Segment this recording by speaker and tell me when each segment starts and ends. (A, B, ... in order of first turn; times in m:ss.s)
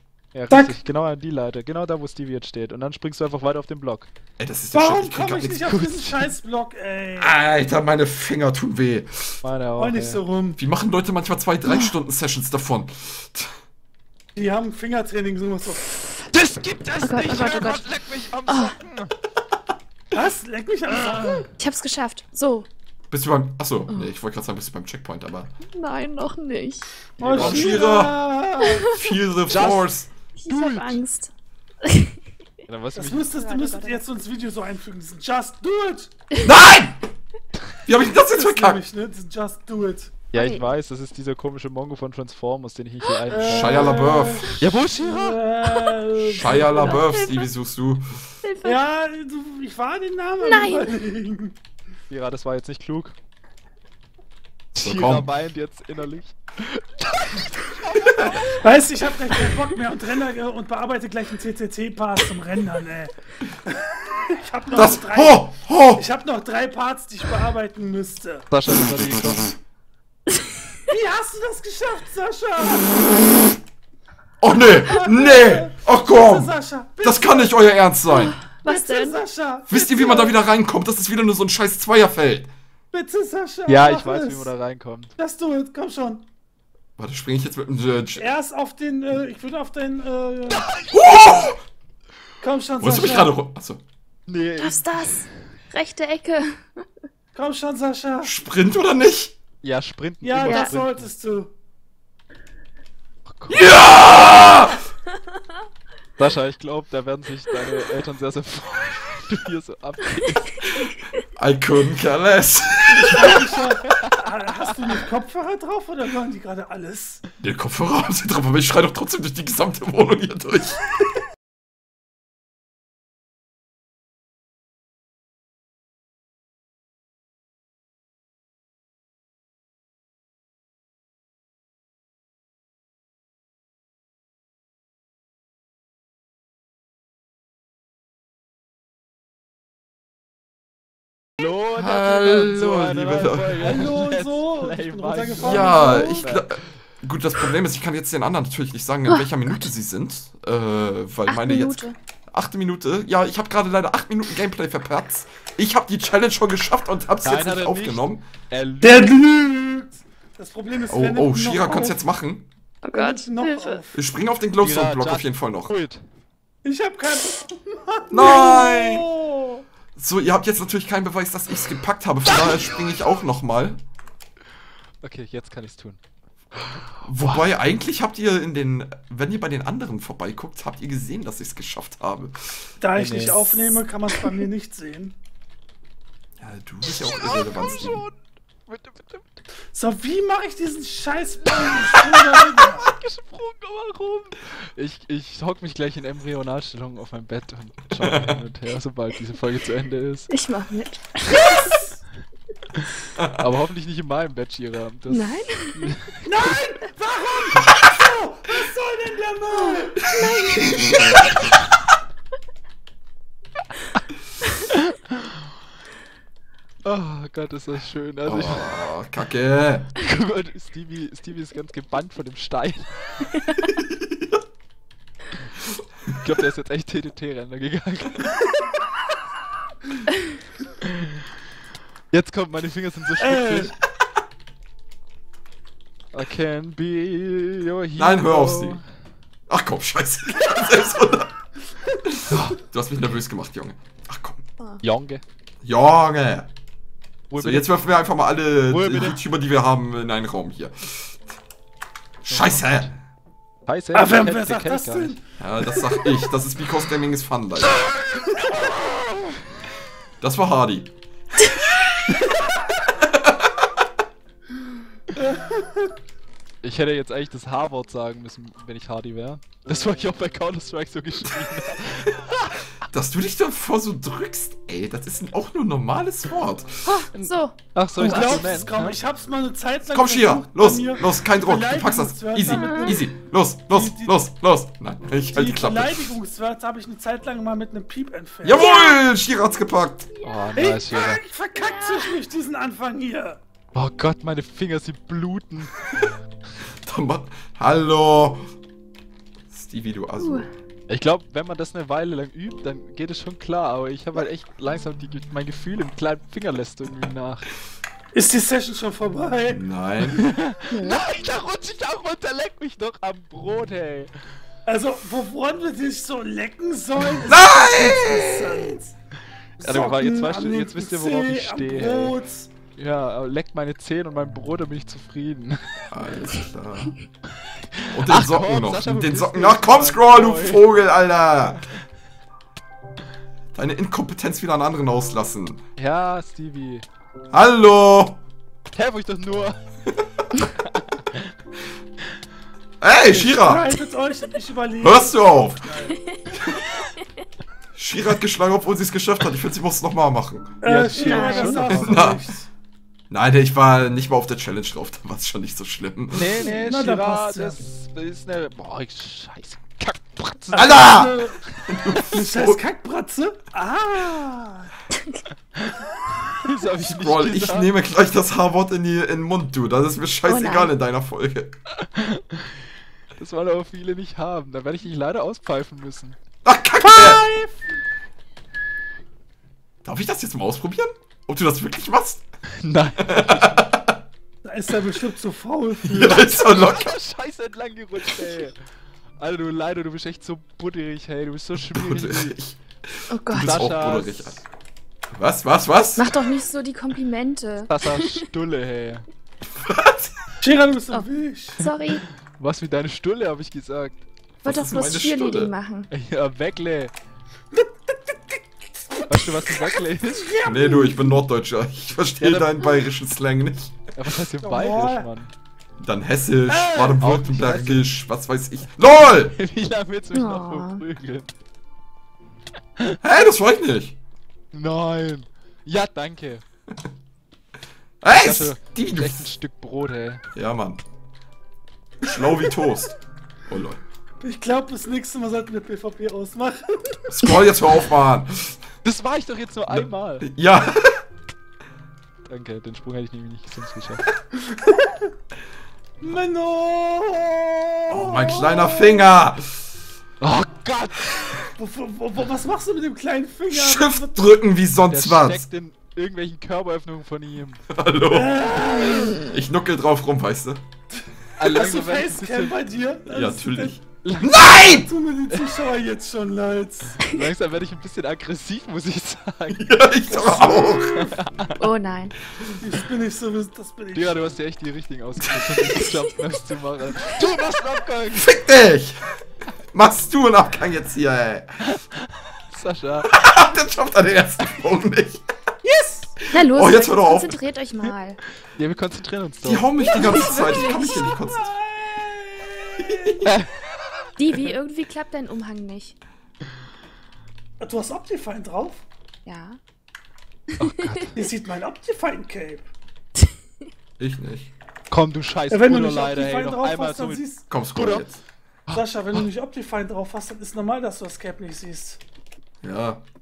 0:00.3-0:04.1 A
0:00.5-0:00.8 B
0:04.4-0:05.9 C
0:04.7-0:07.3 B
0:05.7-0:06.3 A
0:07.2-0:09.4 C
0:09.4-0:10.2 A
0:09.8-0:10.6 B
0:10.6-0:13.6 C
0:11.7-0:11.9 D
0:14.3-0:15.8 B
0:16.3-0:19.1 A
0:17.0-0:17.8 D
0:18.5-0:18.7 D
0:20.1-0:21.5 B
0:21.6-0:22.7 D
0:23.1-0:25.5 C
0:25.6-0:27.0 D
0:27.2-0:28.9 B
0:27.2-0:30.1 C
0:27.2-0:27.8 A
0:29.5-0:29.9 A
0:30.4-0:31.3 D
0:30.5-0:31.0 A
0:31.8-0:32.2 D
0:32.7-0:33.4 A
0:32.9-0:36.1 B
0:33.3-0:34.0 D
0:36.4-0:37.0 C
0:37.8-0:38.8 C
0:38.1-0:40.1 B
0:40.3-0:44.0 A
0:40.3-0:40.6 D
0:43.3-0:47.1 B
0:43.3-0:44.6 C
0:44.6-0:45.4 A
0:46.2-0:48.3 C
0:46.8-0:47.5 D
0:48.4-0:48.8 D
0:48.6-0:51.6 B
0:50.4-0:51.0 D
0:52.1-0:53.2 A
0:54.7-0:58.6 A
0:54.8-0:55.3 C
0:58.0-0:58.4 C
0:58.5-1:03.1 B
1:03.6-1:08.5 B
1:04.7-1:06.0 C
1:08.5-1:09.5 A
1:10.9-1:13.1 B
1:14.4-1:18.4 C
1:14.6-1:17.6 B
1:18.1-1:19.2 D
1:18.6-1:20.4 B
1:19.7-1:22.5 C
1:22.9-1:24.5 B
1:23.7-1:25.1 A
1:25.2-1:26.2 B
1:27.0-1:28.3 C
1:28.2-1:30.7 B
1:30.5-1:31.5 A
1:30.9-1:31.6 C
1:32.4-1:33.3 B
1:32.8-1:33.8 C
1:34.3-1:35.2 A
1:34.6-1:36.8 D
1:37.3-1:38.3 B
1:38.2-1:39.3 C
1:39.6-1:41.1 A
1:40.2-1:41.5 B
1:40.4-1:40.7 D
1:43.3-1:43.7 A
1:43.5-1:44.8 C
1:46.2-1:50.6 A
1:51.4-1:53.4 C
1:53.1-1:57.2 B
1:53.9-1:54.2 A
1:57.4-2:00.8 C
2:21.4-2:26.6 A
2:21.8-2:23.9 C
2:23.6-2:26.2 B
2:25.4-2:38.2 C
2:25.9-2:26.2 D
2:31.3-2:32.0 D
2:37.2-2:39.2 A
2:38.8-2:42.0 B
2:40.9-2:42.4 C
2:42.8-2:43.8 D
2:42.9-2:44.0 B
2:43.9-2:45.7 C
2:44.6-2:46.0 A
2:46.6-2:49.6 B
2:48.1-2:49.1 C
2:50.0-2:53.8 C
2:55.0-2:56.0 A
2:56.6-2:57.5 A
2:57.0-3:02.7 C
3:02.8-3:05.2 B
3:02.9-3:03.8 A
3:06.4-3:08.0 C
3:06.9-3:09.3 A
3:09.7-3:12.9 B
3:12.7-3:20.3 A
3:18.0-3:18.4 C
3:20.3-3:21.8 D
3:23.2-3:23.4 C
3:23.4-3:26.2 A
3:25.1-3:26.0 D
3:26.2-3:30.2 B
3:29.5-3:31.4 D
3:30.8-3:31.2 C
3:36.8-3:38.7 A
3:38.2-3:39.9 C
3:40.0-3:43.3 A
3:43.7-3:44.4 C
3:46.2-3:48.3 A
3:52.1-3:53.7 A
3:53.2-3:53.7 B
3:56.1-3:58.8 A
3:58.0-3:58.8 C
3:59.5-4:01.3 C
4:02.0-4:04.4 C
4:02.3-4:02.6 A
4:04.8-4:05.2 A
4:05.6-4:06.5 C
4:07.3-4:07.7 A
4:07.4-4:11.2 C
4:08.7-4:09.2 A
4:12.2-4:12.9 C
4:12.3-4:13.0 A
4:13.6-4:15.2 A
4:13.9-4:16.0 B
4:15.4-4:17.8 C
4:17.7-4:19.4 A
4:20.2-4:20.9 C
4:23.0-4:23.7 C
4:25.2-4:25.9 B
4:26.6-4:32.6 A
4:32.9-4:37.0 C
4:36.8-4:38.7 D
4:37.1-4:39.0 A
4:38.0-4:43.0 B
4:39.8-4:46.1 C
4:42.5-4:43.0 D
4:43.7-4:44.2 B
4:45.3-4:48.7 B
4:48.4-4:50.1 C
4:48.5-4:49.0 D
4:50.1-4:50.4 D
4:50.2-4:51.2 A
4:50.6-4:53.4 B
4:51.5-4:52.2 D
4:53.7-4:55.7 A
4:56.8-4:58.4 C
4:59.5-5:00.5 C
5:00.2-5:00.5 D
5:00.9-5:07.5 A
5:08.1-5:09.6 B
5:09.5-5:10.2 C
5:10.1-5:14.1 A
5:10.7-5:11.0 D
5:14.6-5:18.9 B
5:17.2-5:18.8 C
5:19.6-5:22.5 B
5:19.6-5:22.2 A
5:22.8-5:25.7 A
5:25.9-5:26.9 C
5:27.7-5:30.6 A
5:27.9-5:31.6 C
5:33.5-5:35.6 C
5:35.8-5:36.8 A
5:37.3-5:38.2 C
5:38.7-5:39.6 A
5:40.6-5:41.3 A
5:42.8-5:43.7 C
5:43.1-5:46.0 B
5:44.8-5:45.7 C
5:45.9-5:46.2 D
5:46.3-5:46.6 C
5:47.7-5:50.5 C
5:50.6-5:52.5 B
5:50.6-5:52.1 A
5:51.0-5:51.8 D
5:51.7-5:52.2 C
5:53.1-5:56.4 C
5:56.1-6:01.7 A
5:56.4-5:57.6 B
6:00.5-6:01.4 B
6:00.5-6:02.6 C
6:02.0-6:04.7 B
6:04.9-6:05.2 D
6:06.4-6:07.7 A
6:06.7-6:11.5 C
6:10.3-6:10.7 D
6:11.8-6:12.5 A
6:13.2-6:16.2 A
6:16.4-6:17.2 C
6:16.8-6:17.6 B
6:19.8-6:22.2 C
6:22.6-6:23.7 A
6:23.0-6:24.0 C
6:24.4-6:26.6 B
6:25.8-6:26.9 C
6:26.3-6:28.6 A
6:29.2-6:32.4 A
6:31.7-6:34.4 C
6:33.1-6:33.7 D
6:33.4-6:34.4 A
6:35.1-6:36.1 C
6:36.0-6:38.2 D
6:37.7-6:39.1 A
6:39.5-6:40.1 C
6:40.4-6:41.6 B
6:41.6-6:42.0 D
6:42.4-6:44.0 A
6:44.4-6:45.5 C
6:44.4-6:45.9 D
6:45.9-6:46.9 A
6:47.5-6:51.2 B
6:49.1-6:50.3 A
6:50.4-6:53.8 C
6:52.2-6:52.6 A
6:54.0-6:55.3 A
6:54.4-6:55.1 B
6:55.8-6:59.3 C
6:56.5-6:57.0 B
6:56.9-6:57.9 A
6:59.3-7:01.3 A
7:00.1-7:00.8 D
7:03.0-7:04.0 C
7:04.5-7:06.4 A
7:08.0-7:09.3 C
7:08.1-7:10.2 A
7:10.3-7:10.8 C
7:12.0-7:13.0 C
7:13.5-7:13.8 C
7:14.2-7:17.0 B
7:17.1-7:18.6 C
7:18.8-7:20.3 A
7:19.7-7:21.0 C
7:22.3-7:24.0 A
7:24.4-7:25.1 B
7:26.0-7:29.2 B
7:27.9-7:29.6 C
7:30.2-7:31.3 A
7:31.6-7:34.2 B
7:33.5-7:35.4 C
7:34.9-7:37.6 A
7:37.7-7:40.6 C
7:38.1-7:39.3 B
7:41.4-7:42.6 A
7:41.4-7:43.7 B
7:43.1-7:44.9 C
7:44.0-7:44.5 A
7:44.5-7:47.0 B
7:45.3-7:45.6 A
7:47.0-7:49.7 A
7:49.5-7:51.1 C
7:50.1-7:50.9 B
7:50.9-7:51.6 A
7:51.6-7:52.2 D
7:52.6-7:54.3 B
7:53.9-7:58.3 A
7:58.1-7:59.0 C
7:59.7-8:01.7 C
8:01.6-8:01.9 A
8:02.5-8:03.1 A
8:03.0-8:05.2 C
8:05.6-8:06.2 B
8:06.3-8:08.2 D
8:06.3-8:07.4 C
8:08.6-8:09.7 A
8:09.4-8:11.5 C
8:09.8-8:11.2 D
8:10.1-8:10.7 B
8:11.2-8:13.2 B
8:12.8-8:13.3 C
8:13.2-8:13.5 A
8:14.2-8:16.0 D
8:17.6-8:18.8 B
8:19.2-8:19.6 D
8:20.6-8:21.2 A
8:21.1-8:22.7 B
8:24.0-8:24.5 C
8:24.9-8:28.1 A
8:25.5-8:27.5 B
8:27.5-8:28.2 C
8:28.7-8:32.0 B
8:32.6-8:33.0 C